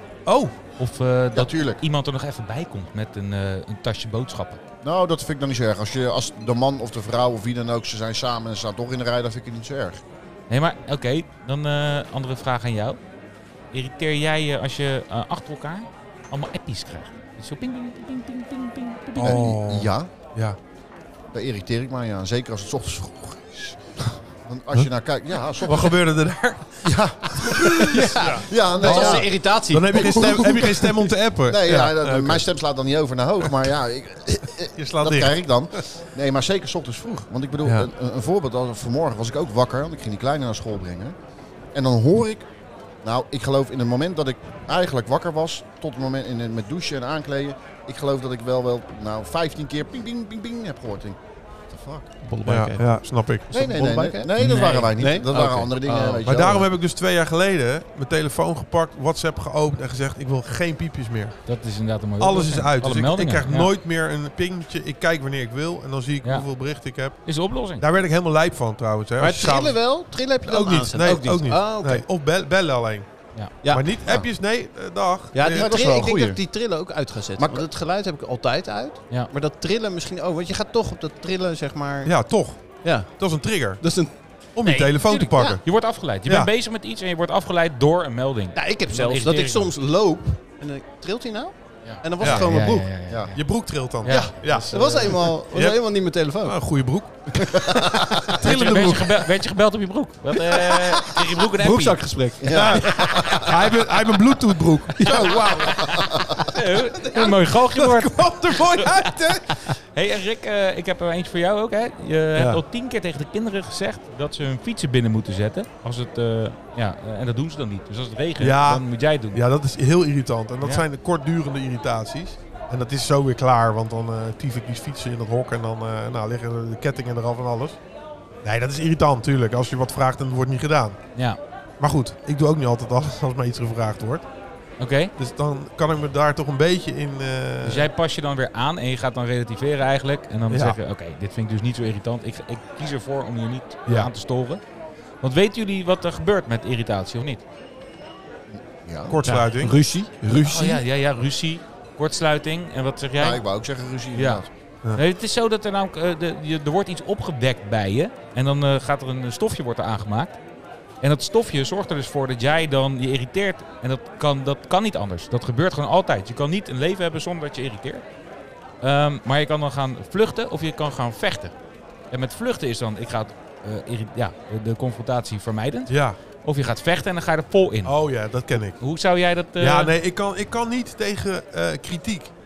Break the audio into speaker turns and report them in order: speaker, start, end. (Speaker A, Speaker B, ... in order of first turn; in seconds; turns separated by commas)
Speaker A: 0.3-0.5, Speaker B: 0.8-4.6, Speaker C: 1.3-1.8, Speaker C: 4.8-10.0, Speaker B: 10.5-13.0, Speaker B: 13.7-19.6, Speaker C: 19.2-20.1, Speaker A: 19.2-20.6, Speaker C: 21.3-26.0, Speaker A: 25.6-32.5, Speaker C: 26.8-29.3, Speaker D: 27.7-30.9, Speaker C: 29.9-41.1, Speaker A: 34.8-35.4, Speaker A: 37.6-37.9, Speaker C: 41.7-42.5, Speaker C: 43.0-51.2, Speaker C: 51.7-52.1, Speaker D: 52.2-53.0, Speaker A: 52.5-53.5, Speaker D: 53.5-54.3, Speaker C: 53.5-56.7, Speaker B: 54.4-54.9, Speaker D: 55.0-56.2, Speaker A: 56.3-61.4, Speaker B: 61.5-63.7, Speaker A: 62.2-67.2, Speaker B: 67.2-67.8, Speaker A: 67.8-69.8, Speaker D: 69.2-72.0, Speaker A: 70.5-73.1, Speaker A: 73.7-75.7, Speaker D: 75.3-82.1, Speaker C: 75.5-76.4, Speaker C: 77.4-77.7, Speaker A: 82.1-83.8, Speaker D: 82.8-83.1, Speaker D: 83.8-84.1, Speaker A: 84.5-85.6, Speaker B: 84.6-89.7, Speaker D: 85.3-85.6, Speaker D: 88.5-92.9, Speaker B: 91.8-93.4, Speaker A: 92.2-92.5, Speaker C: 93.1-93.4, Speaker A: 93.3-95.8, Speaker B: 94.0-95.0, Speaker C: 94.1-94.8, Speaker D: 94.1-96.6, Speaker A: 96.4-99.3, Speaker D: 97.3-98.9, Speaker C: 97.5-98.3, Speaker B: 98.4-102.0, Speaker D: 100.9-103.5, Speaker C: 102.4-103.6, Speaker A: 102.5-109.6, Speaker D: 105.0-105.6, Speaker B: 105.1-119.4, Speaker C: 105.6-106.4, Speaker A: 112.3-112.6, Speaker A: 118.4-127.8, Speaker A: 128.4-131.0, Speaker A: 131.8-134.2, Speaker B: 134.8-135.1, Speaker A: 135.2-137.9, Speaker B: 137.6-144.6, Speaker A: 140.5-140.8, Speaker B: 145.2-147.4, Speaker C: 148.5-149.2, Speaker A: 149.1-150.8, Speaker D: 149.2-150.3, Speaker B: 150.4-153.4, Speaker C: 153.2-154.5, Speaker B: 154.2-154.4, Speaker B: 154.9-160.4, Speaker B: 161.0-168.0, Speaker B: 168.8-171.6, Speaker B: 172.1-178.0, Speaker A: 175.9-176.2, Speaker A: 177.8-178.8, Speaker B: 178.8-179.9, Speaker A: 179.6-182.3